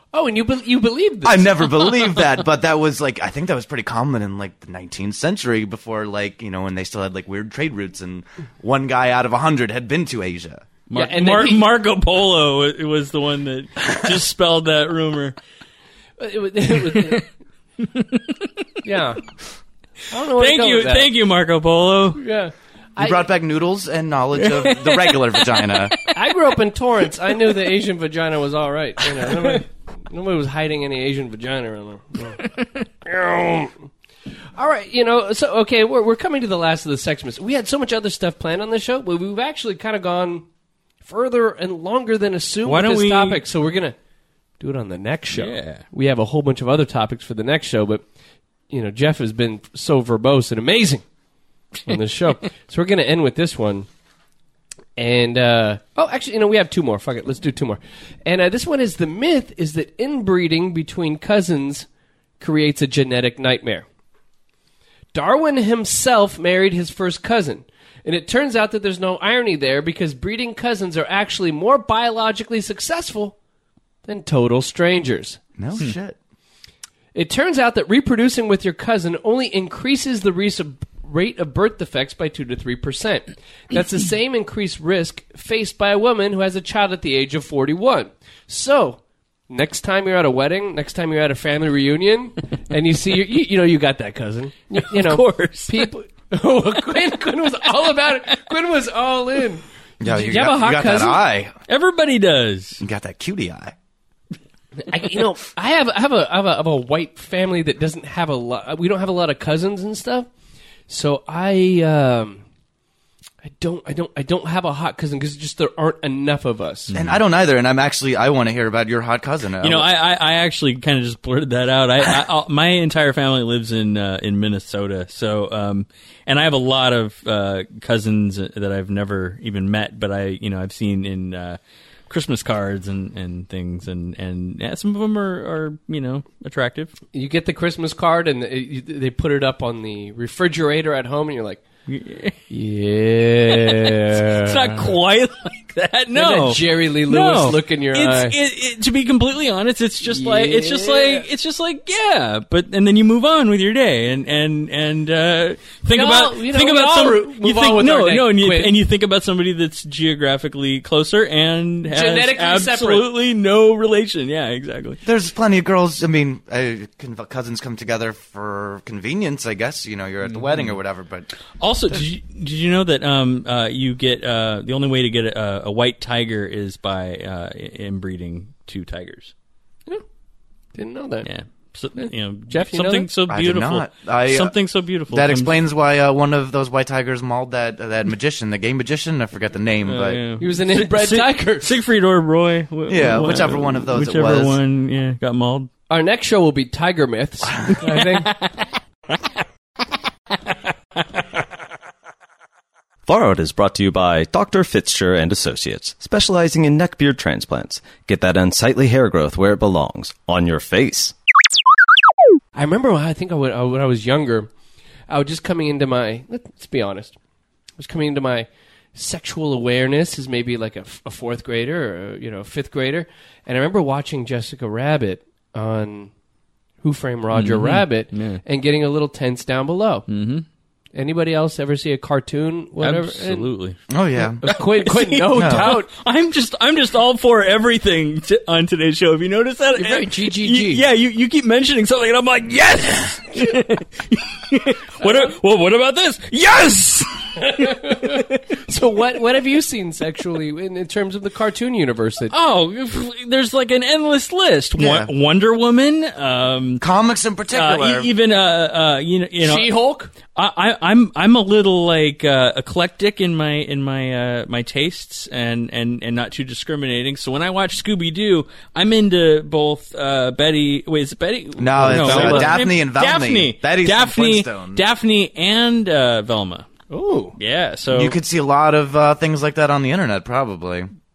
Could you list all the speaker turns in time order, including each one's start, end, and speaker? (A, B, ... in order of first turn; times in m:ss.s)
0:00.1-0:01.8 A
0:01.2-0:10.7 B
0:10.9-0:15.4 C
0:10.9-0:11.7 A
0:16.2-0:17.3 A
0:16.9-0:17.2 C
0:17.8-0:18.7 C
0:18.8-0:19.2 A
0:20.1-0:21.1 A
0:20.4-0:22.2 C
0:22.2-0:23.3 A
0:23.0-0:26.0 B
0:24.5-0:26.1 C
0:26.1-0:32.4 A
0:29.2-0:29.5 C
0:33.0-0:33.8 A
0:34.6-0:40.5 A
0:41.0-0:44.0 A
0:42.6-0:43.4 C
0:44.6-0:48.0 A
0:45.3-0:45.8 C
0:48.7-0:51.0 A
0:51.9-0:53.9 A
0:55.0-1:01.9 A
1:02.4-1:03.9 A
1:05.1-1:13.4 A
1:14.0-1:15.4 A
1:15.6-1:16.2 B
1:17.2-1:41.2 A
1:34.9-1:35.9 C
1:40.0-1:41.6 B
1:41.7-1:42.8 C
1:42.8-1:43.8 B
1:44.8-1:50.3 A
1:50.9-1:52.4 A
1:53.4-1:56.9 A
1:56.9-1:57.2 C
1:56.9-1:59.9 B
1:59.6-2:17.0 C
2:17.1-2:21.6 A
2:21.9-2:22.4 C
2:22.5-2:24.9 A
2:23.6-2:45.0 C
2:26.1-2:28.4 A
2:30.0-2:31.3 A
2:35.9-2:38.7 A
2:41.9-2:43.1 A
2:45.0-2:51.3 B
2:50.4-2:50.7 C
2:51.6-2:59.3 C
3:00.8-3:01.3 A
3:01.2-3:05.6 C
3:02.0-3:03.1 A
3:03.3-3:04.5 B
3:05.1-3:10.2 B
3:09.8-3:15.7 C
3:10.4-3:11.8 A
3:12.9-3:14.6 B
3:15.9-3:18.4 A
3:17.4-3:17.8 B
3:18.2-3:18.5 C
3:23.1-3:31.1 D
3:32.6-3:34.5 A
3:35.1-3:37.2 A
3:37.8-3:46.1 A
3:46.8-3:50.1 A
3:47.3-3:48.4 C
3:50.1-3:50.5 C
3:51.0-3:53.5 A
3:52.8-3:53.8 C
3:53.9-3:54.4 B
3:54.4-3:55.9 A
3:54.4-4:08.4 C
3:55.4-3:55.7 B
3:59.8-4:00.8 A
4:03.3-4:03.6 A
4:05.0-4:05.3 A
4:07.4-4:12.3 A
4:12.3-4:16.8 C
4:14.8-4:15.1 B
4:16.8-4:18.1 B
4:17.5-4:19.7 C
4:19.4-4:20.1 A
4:20.2-4:36.7 C
4:31.6-4:34.8 B
4:31.8-4:32.6 A
4:36.9-4:37.4 A
4:37.4-4:38.2 C
4:37.9-4:40.9 B